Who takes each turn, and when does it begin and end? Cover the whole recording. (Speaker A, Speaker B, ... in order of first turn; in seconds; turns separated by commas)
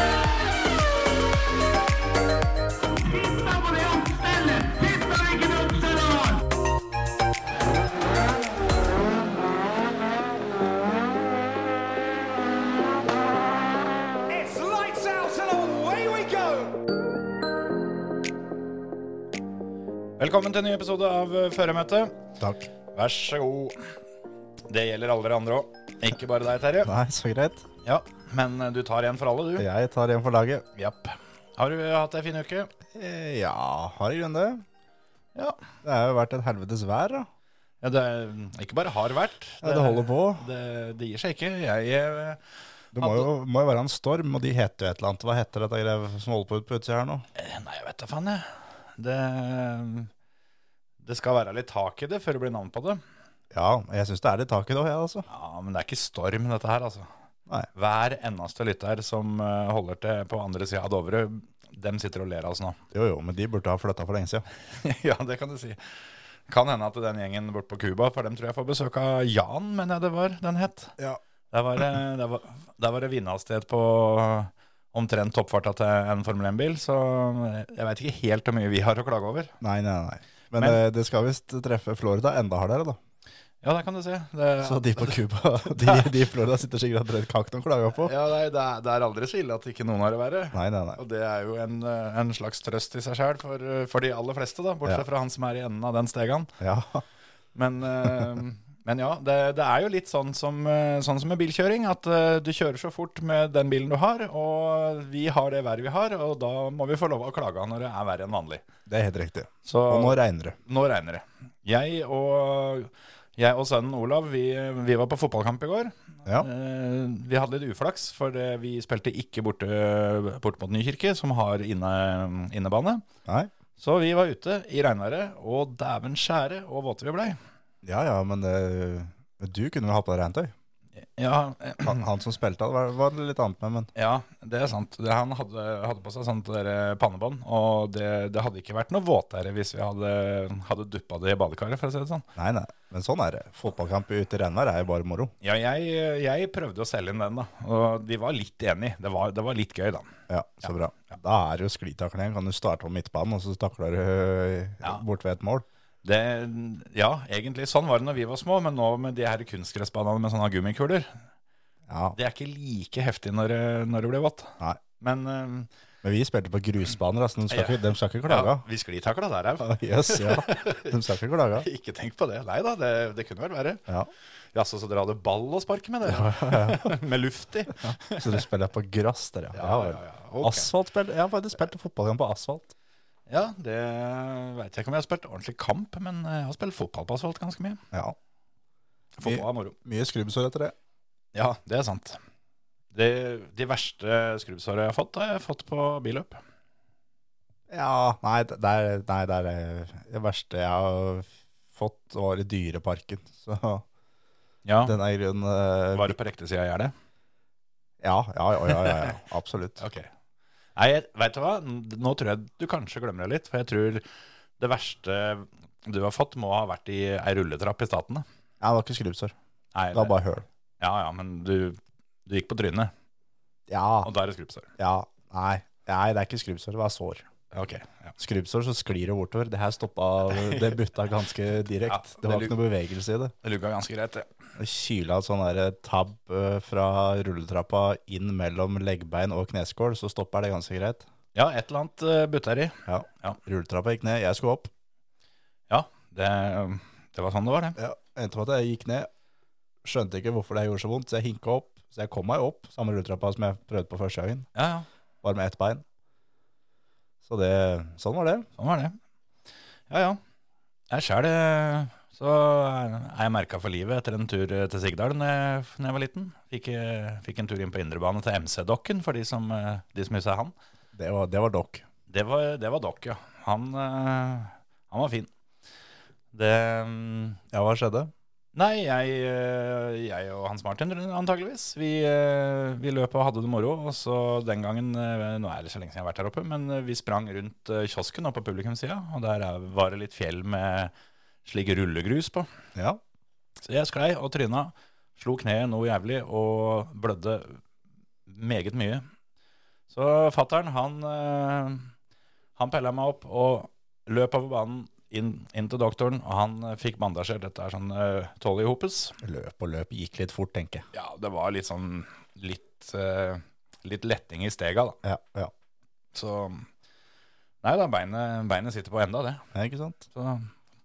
Speaker A: 2.9-6.4, Speaker A: 14.3-16.8, Speaker B: 20.2-22.1, Speaker C: 22.4-22.6, Speaker B: 22.9-23.8, Speaker B: 24.7-26.9, Speaker C: 26.8-27.6, Speaker B: 27.8-29.7, Speaker C: 29.6-30.6, Speaker B: 30.7-32.7, Speaker C: 32.9-34.6, Speaker C: 35.8-37.3, Speaker B: 37.8-42.4, Speaker C: 39.6-40.5, Speaker C: 42.9-47.2, Speaker B: 43.0-43.3, Speaker B: 47.4-48.5, Speaker B: 49.0-50.1, Speaker B: 51.0-53.0, Speaker C: 53.5-55.2, Speaker B: 55.3-57.1, Speaker B: 57.7-62.8, Speaker C: 62.9-64.4, Speaker B: 64.7-70.9, Speaker B: 71.5-79.5, Speaker C: 79.6-83.0, Speaker B: 80.5-80.8, Speaker B: 83.6-86.1, Speaker C: 84.6-88.1, Speaker B: 88.0-96.5, Speaker C: 90.5-91.0, Speaker C: 96.6-97.0, Speaker B: 97.5-108.6, Speaker C: 108.9-110.6, Speaker B: 109.7-123.0, Speaker C: 123.2-123.5, Speaker B: 123.8-127.4, Speaker C: 127.8-130.5, Speaker B: 131.0-132.0, Speaker C: 131.8-133.9, Speaker B: 133.9-142.2, Speaker C: 142.3-145.3, Speaker B: 145.4-150.2, Speaker C: 150.3-155.7, Speaker B: 156.0-161.2, Speaker C: 161.9-162.2, Speaker B: 162.1-165.7, Speaker C: 166.0-168.6, Speaker B: 167.5-170.9, Speaker C: 169.6-171.7, Speaker B: 171.6-173.8, Speaker B: 174.5-178.4, Speaker C: 176.1-176.9, Speaker C: 177.8-182.7, Speaker B: 179.5-180.7, Speaker B: 183.3-187.8, Speaker B: 189.2-189.7, Speaker C: 189.2-190.7, Speaker B: 191.3-192.2, Speaker B: 192.9-196.4, Speaker C: 197.7-203.8, Speaker B: 204.6-205.0, Speaker C: 204.8-206.2, Speaker B: 205.9-206.9, Speaker C: 208.0-209.8, Speaker B: 208.7-209.1, Speaker B: 209.8-210.1, Speaker B: 210.8-214.0, Speaker B: 214.6-218.2, Speaker C: 218.6-219.3, Speaker B: 219.7-220.2, Speaker C: 219.9-220.4, Speaker B: 220.8-222.9, Speaker C: 223.7-224.1, Speaker B: 224.0-224.7, Speaker C: 224.8-227.3, Speaker B: 227.5-228.1, Speaker C: 228.2-233.3, Speaker B: 230.4-230.7, Speaker B: 231.9-232.5, Speaker B: 233.4-234.3, Speaker C: 234.6-241.1, Speaker B: 241.3-243.4, Speaker C: 242.8-244.7, Speaker B: 245.7-247.8, Speaker C: 247.8-249.1, Speaker C: 249.8-254.5, Speaker B: 254.5-254.9, Speaker C: 255.2-255.8, Speaker C: 257.2-258.5, Speaker B: 258.6-259.0, Speaker B: 259.9-260.2, Speaker B: 260.9-270.5, Speaker C: 270.9-271.8, Speaker B: 272.1-275.3, Speaker B: 276.3-277.4, Speaker C: 277.5-278.1, Speaker B: 278.5-290.9, Speaker B: 291.4-292.5, Speaker B: 293.6-297.6, Speaker B: 298.3-299.0, Speaker B: 299.9-301.9, Speaker B: 302.6-309.1, Speaker C: 309.2-310.9, Speaker B: 310.9-315.0, Speaker C: 315.0-315.5, Speaker B: 316.1-316.7, Speaker B: 317.6-319.4, Speaker C: 319.5-320.0, Speaker B: 320.1-320.5